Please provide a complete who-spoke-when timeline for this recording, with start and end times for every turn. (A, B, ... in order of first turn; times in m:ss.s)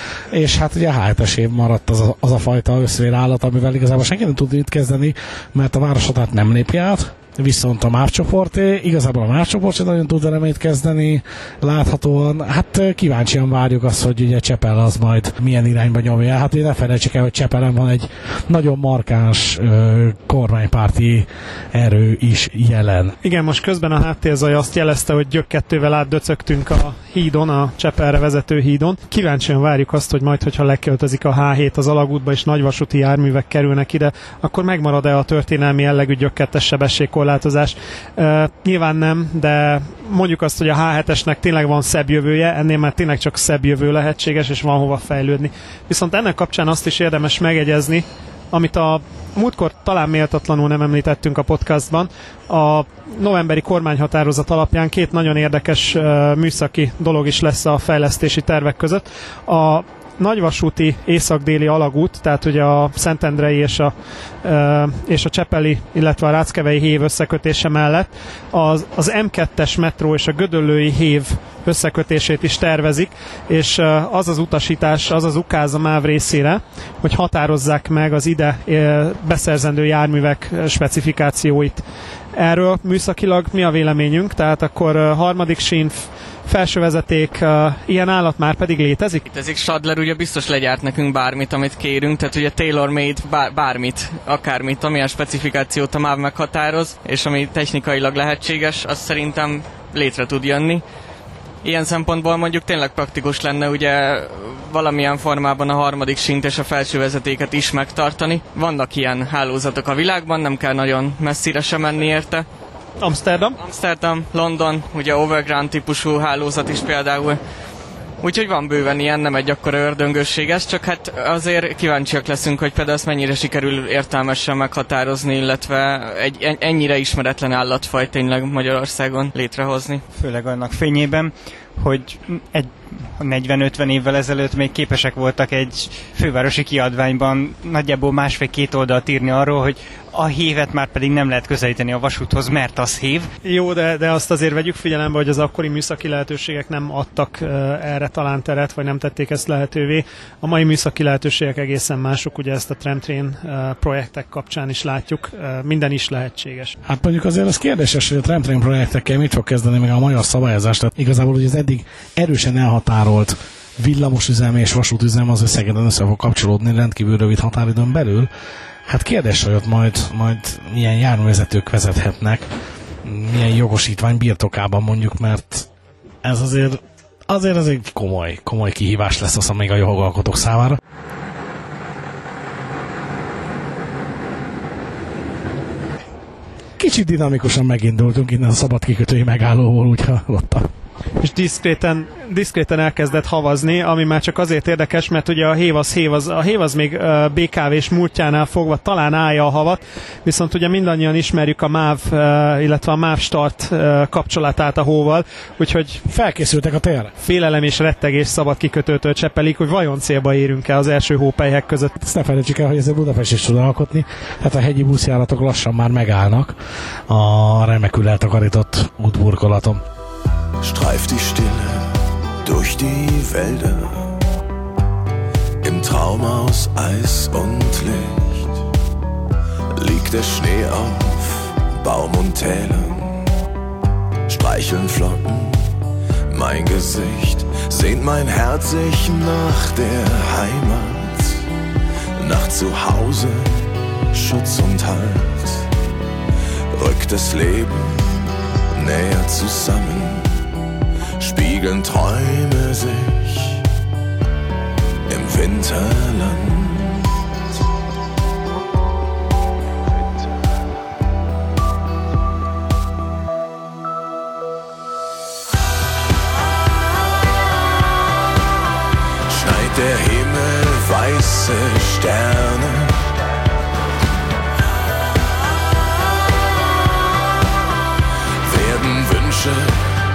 0:00.3-0:23.2 A
0:23.2-1:21.8 B
1:22.3-1:29.2 B
1:29.3-1:40.8 C
1:41.6-1:52.4 C
1:53.0-1:53.6 B
1:53.6-1:57.4 C
1:58.2-2:10.0 C
2:10.1-2:23.3 D
2:23.4-2:36.8 B
2:36.8-2:48.3 A
2:48.9-2:52.5 A
2:53.0-2:55.7 A
2:56.2-3:00.8 A
3:06.8-3:10.7 A
3:11.2-3:26.0 B
3:26.0-3:27.1 A
3:27.2-3:31.9 B
3:32.0-3:36.6 A
3:37.1-3:39.8 A
3:40.6-3:44.1 E
3:45.6-3:48.6 E
3:49.7-3:53.3 E
3:54.3-3:55.7 E
3:56.3-4:01.4 E
4:02.2-4:05.7 E
4:06.7-4:10.4 E
4:11.2-4:13.6 E
4:15.1-4:17.1 E
4:29.3-4:33.0 E
4:38.4-4:39.9 E